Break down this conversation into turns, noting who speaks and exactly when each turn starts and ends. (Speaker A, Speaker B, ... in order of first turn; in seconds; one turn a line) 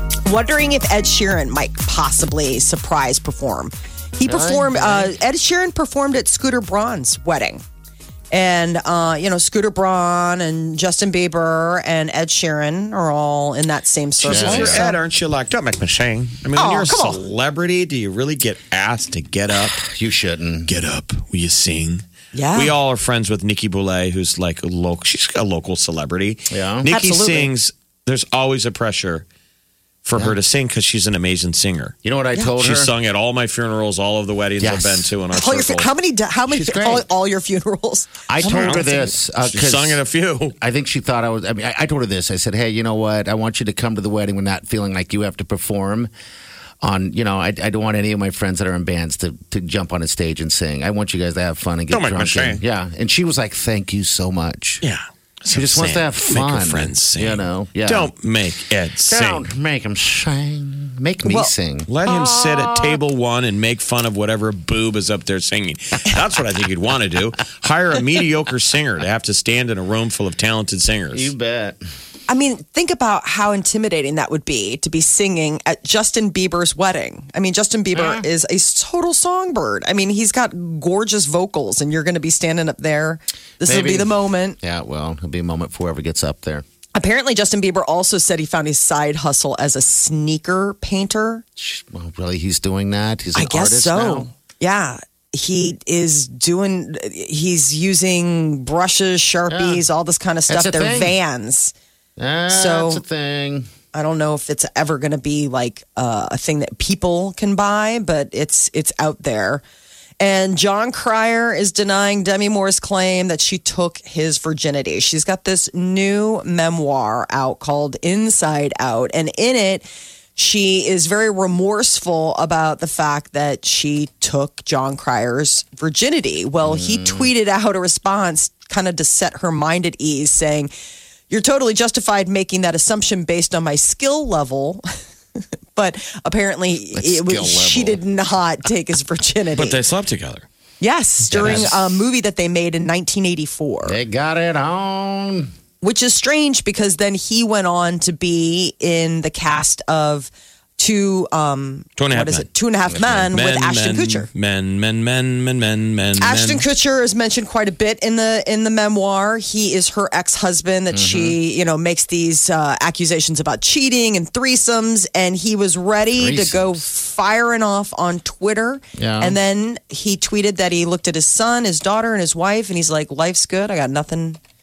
Speaker A: 0.2-7.6
Speaker B: 4.2-5.2
Speaker A: 8.3-15.0
Speaker C: 14.2-19.8
Speaker B: 14.2-14.9
Speaker A: 16.6-17.2
Speaker B: 19.8-20.7
Speaker C: 20.6-22.0
Speaker A: 22.3-22.7
Speaker C: 22.6-29.2
Speaker B: 26.5-26.9
Speaker A: 26.9-27.5
Speaker C: 30.1-31.9
Speaker B: 32.0-32.9
Speaker C: 32.6-35.9
Speaker B: 34.6-35.1
Speaker A: 35.3-39.0
Speaker B: 36.5-37.1
Speaker B: 38.3-40.0
Speaker C: 38.4-40.5
Speaker B: 40.6-46.1
Speaker B: 46.8-54.8
Speaker C: 51.9-52.6
Speaker C: 54.8-59.4
Speaker B: 55.5-58.1
Speaker B: 59.1-63.0
Speaker A: 61.2-61.5
Speaker C: 61.9-71.3
Speaker B: 71.1-71.8
Speaker A: 72.3-84.6
Speaker B: 77.9-78.2
Speaker B: 83.6-86.6
Speaker A: 87.0-91.4
Speaker B: 91.6-94.3
Speaker A: 93.3-101.7
Speaker B: 99.5-99.8
Speaker B: 100.5-101.2
Speaker B: 102.2-103.7
Speaker A: 102.5-103.0
Speaker A: 103.9-109.6
Speaker A: 110.2-130.7
Speaker B: 126.6-127.3
Speaker A: 131.3-134.8
Speaker A: 135.8-139.8
Speaker B: 136.9-138.0
Speaker C: 139.5-140.5
Speaker A: 140.8-144.0
Speaker C: 141.3-141.7
Speaker B: 141.3-141.9
Speaker B: 143.8-145.5
Speaker A: 145.8-154.3
Speaker C: 152.0-152.5
Speaker B: 152.9-153.3
Speaker C: 153.3-156.7
Speaker A: 156.2-174.4
Speaker B: 160.9-161.4
Speaker B: 166.1-166.8
Speaker B: 169.0-169.4